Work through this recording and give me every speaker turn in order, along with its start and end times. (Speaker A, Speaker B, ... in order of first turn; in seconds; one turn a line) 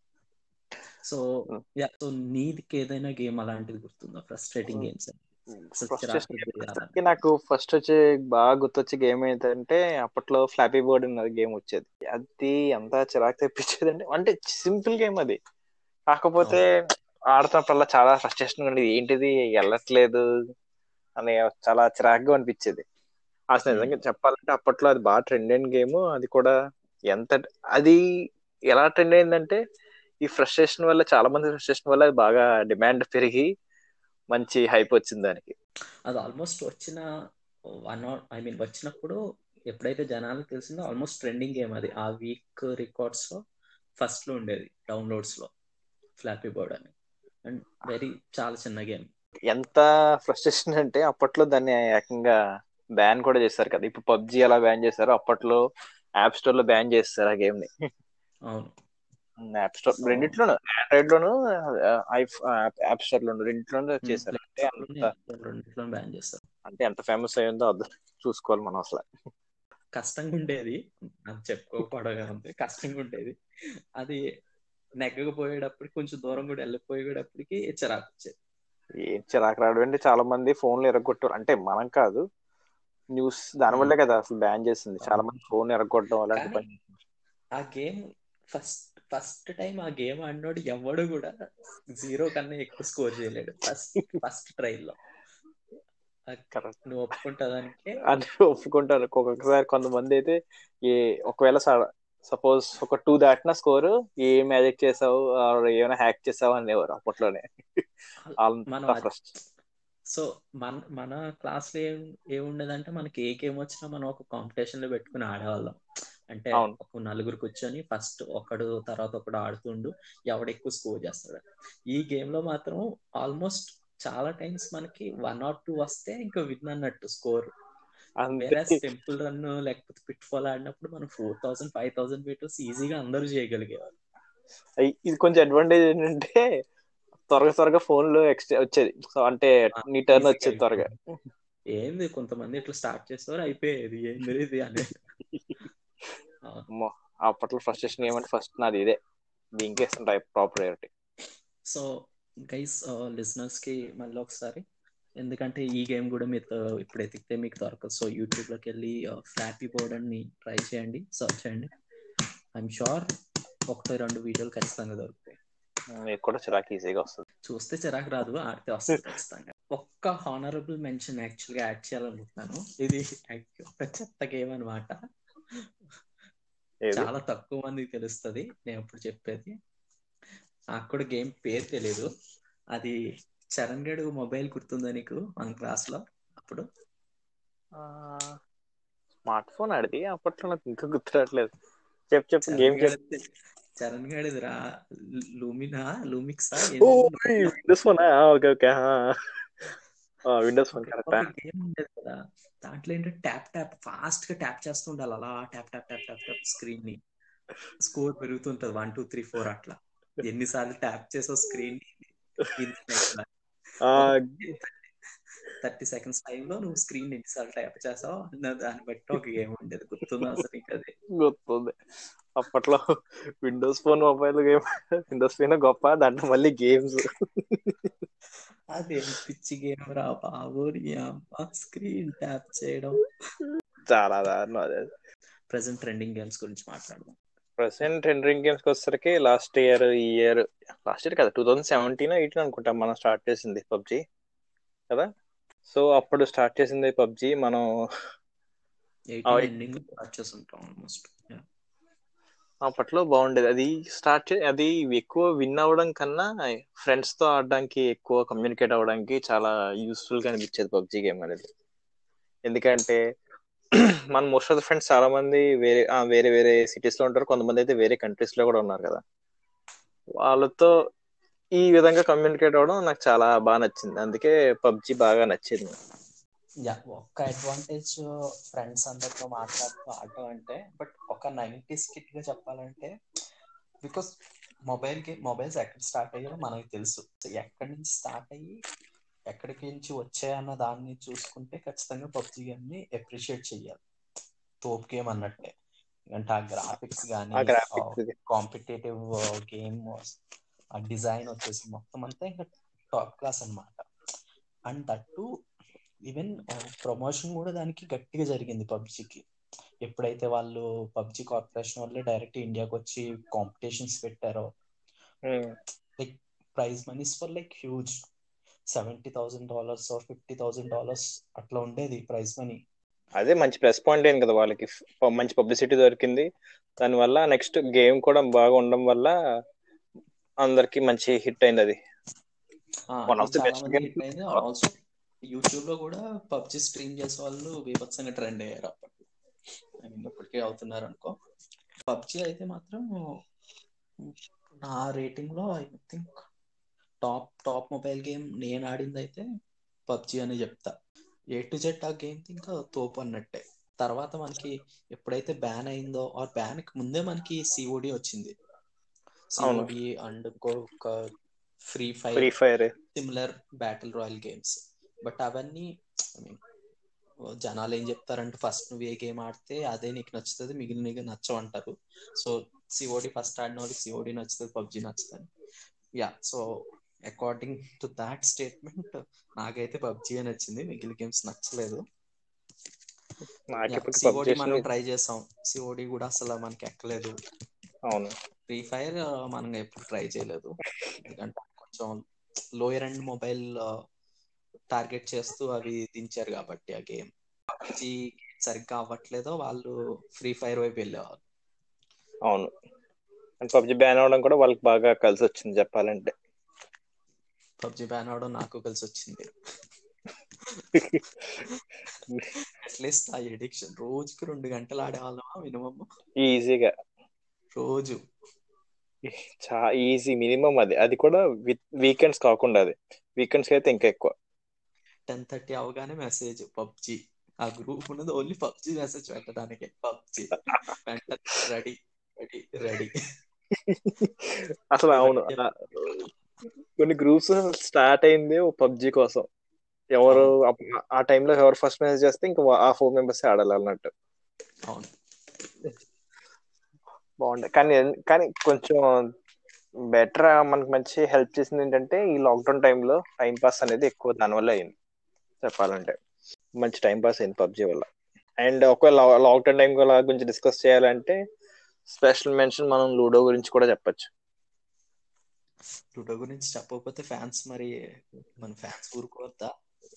Speaker A: 1.8-5.2
Speaker A: 5.8-7.2
Speaker B: 5.8-15.4
Speaker B: 16.1-16.7
Speaker B: 17.3-20.2
Speaker B: 21.2-22.8
Speaker B: 23.6-26.5
Speaker B: 27.1-28.0
Speaker B: 28.7-29.6
Speaker B: 30.2-33.5
Speaker B: 34.3-35.5
Speaker A: 36.1-37.0
Speaker A: 37.9-39.2
Speaker A: 39.7-43.4
Speaker A: 44.0-45.5
Speaker A: 46.2-46.9
Speaker A: 47.5-49.1
Speaker B: 49.5-52.4
Speaker B: 53.0-55.6
Speaker B: 56.2-57.7
Speaker B: 59.4-65.1
Speaker A: 60.0-60.4
Speaker A: 64.0-66.4
Speaker B: 66.7-69.0
Speaker A: 70.0-73.3
Speaker A: 75.0-78.3
Speaker B: 79.0-82.2
Speaker B: 83.1-87.0
Speaker A: 85.0-85.5
Speaker A: 86.3-86.6
Speaker A: 87.6-88.0
Speaker A: 88.5-91.3
Speaker A: 92.0-95.0
Speaker A: 96.3-98.0
Speaker B: 98.0-107.8
Speaker A: 108.2-109.1
Speaker B: 108.4-109.3
Speaker A: 110.1-115.8
Speaker A: 116.3-121.4
Speaker A: 121.9-127.5
Speaker B: 128.2-128.8
Speaker A: 128.4-133.9
Speaker B: 134.8-136.4
Speaker B: 137.3-141.2
Speaker A: 139.8-140.9
Speaker A: 141.7-145.0
Speaker B: 146.7-149.0
Speaker B: 149.6-150.9
Speaker A: 152.5-154.6
Speaker A: 155.2-161.7
Speaker A: 162.6-163.1
Speaker A: 163.7-165.4
Speaker B: 165.9-167.2
Speaker A: 167.5-174.9
Speaker B: 176.8-177.1
Speaker A: 176.9-179.5
Speaker A: 180.8-182.1
Speaker A: 183.6-186.6
Speaker B: 187.8-188.3
Speaker B: 189.2-191.5
Speaker B: 192.1-192.9
Speaker A: 192.4-193.2
Speaker A: 193.8-194.6
Speaker A: 195.4-197.6
Speaker B: 196.8-199.7
Speaker B: 200.2-201.3
Speaker A: 200.8-207.0
Speaker A: 207.8-213.3
Speaker B: 213.8-214.5
Speaker A: 213.9-214.9
Speaker A: 215.6-220.9
Speaker B: 221.2-221.7
Speaker B: 222.4-222.8
Speaker B: 223.4-227.9
Speaker A: 228.8-233.0
Speaker B: 233.9-234.9
Speaker A: 235.5-237.2
Speaker B: 237.6-244.0
Speaker B: 245.7-247.6
Speaker A: 249.2-251.4
Speaker B: 252.6-261.5
Speaker B: 262.5-263.0
Speaker B: 263.7-269.0
Speaker B: 270.2-270.7
Speaker B: 271.6-275.7
Speaker A: 276.7-278.0
Speaker A: 278.5-282.9
Speaker A: 283.8-284.1
Speaker A: 284.7-288.6
Speaker A: 289.3-293.8
Speaker A: 294.6-295.5
Speaker A: 296.1-300.2
Speaker B: 297.4-298.1
Speaker A: 300.8-303.8
Speaker A: 304.7-305.2
Speaker A: 306.1-309.2
Speaker A: 309.9-314.5
Speaker B: 315.3-315.5
Speaker A: 316.0-317.9
Speaker A: 318.8-322.6
Speaker B: 323.1-326.3
Speaker B: 326.8-329.1
Speaker B: 330.4-331.8
Speaker A: 333.0-334.7
Speaker B: 333.1-334.4
Speaker A: 335.3-339.1
Speaker A: 339.8-341.1
Speaker A: 341.9-342.8
Speaker A: 344.6-346.2
Speaker A: 347.0-349.2
Speaker A: 349.9-350.7
Speaker A: 351.4-358.3
Speaker A: 359.4-361.0
Speaker B: 359.4-359.7
Speaker A: 361.7-362.3
Speaker B: 362.1-362.7
Speaker A: 362.9-365.6
Speaker A: 367.4-375.3
Speaker A: 376.0-376.4
Speaker A: 377.1-381.8
Speaker B: 383.5-384.6
Speaker A: 383.7-387.1
Speaker B: 387.9-388.1
Speaker A: 388.5-392.0
Speaker A: 392.6-393.5
Speaker A: 394.7-401.2
Speaker B: 402.3-402.5
Speaker B: 403.4-406.1
Speaker A: 407.6-409.3
Speaker B: 410.8-411.0
Speaker A: 412.4-415.9
Speaker B: 416.2-416.7
Speaker A: 417.6-418.0
Speaker B: 419.0-424.1
Speaker A: 425.1-433.0
Speaker B: 433.5-436.1
Speaker A: 434.9-435.4
Speaker B: 436.8-439.2
Speaker B: 439.9-443.9
Speaker A: 440.1-440.3
Speaker B: 447.2-449.0
Speaker B: 449.9-454.7
Speaker B: 455.4-456.0
Speaker B: 456.6-457.9
Speaker B: 458.4-461.1
Speaker B: 461.9-464.1
Speaker A: 465.9-467.7
Speaker A: 468.4-469.5